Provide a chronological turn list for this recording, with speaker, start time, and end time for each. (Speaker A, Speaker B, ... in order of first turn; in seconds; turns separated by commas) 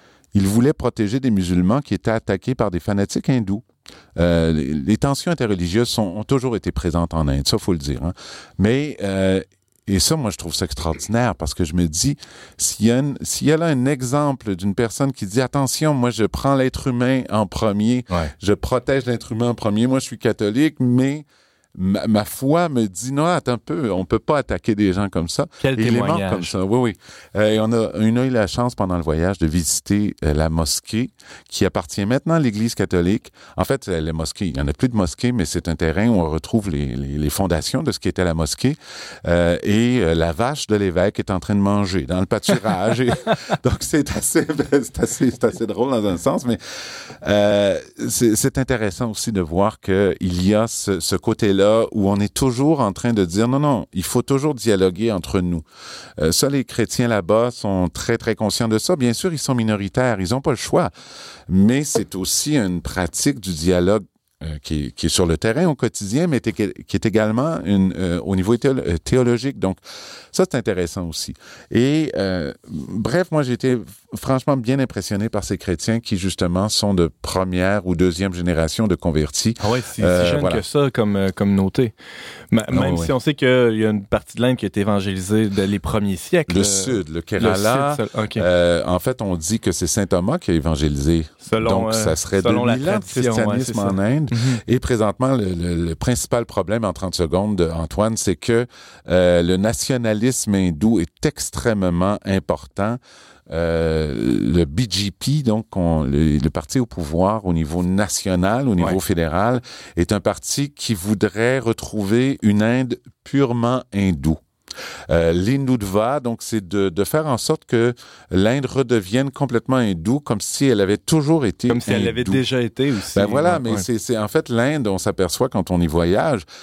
Speaker A: 0.3-55.6, Speaker B: 25.6-26.5, Speaker A: 56.2-60.9, Speaker A: 61.5-69.8, Speaker A: 70.3-80.6, Speaker B: 79.6-81.9, Speaker B: 82.5-88.4, Speaker A: 82.7-83.1, Speaker A: 86.5-114.4, Speaker B: 91.4-94.6, Speaker A: 115.1-122.4, Speaker B: 121.7-123.8, Speaker A: 123.1-126.4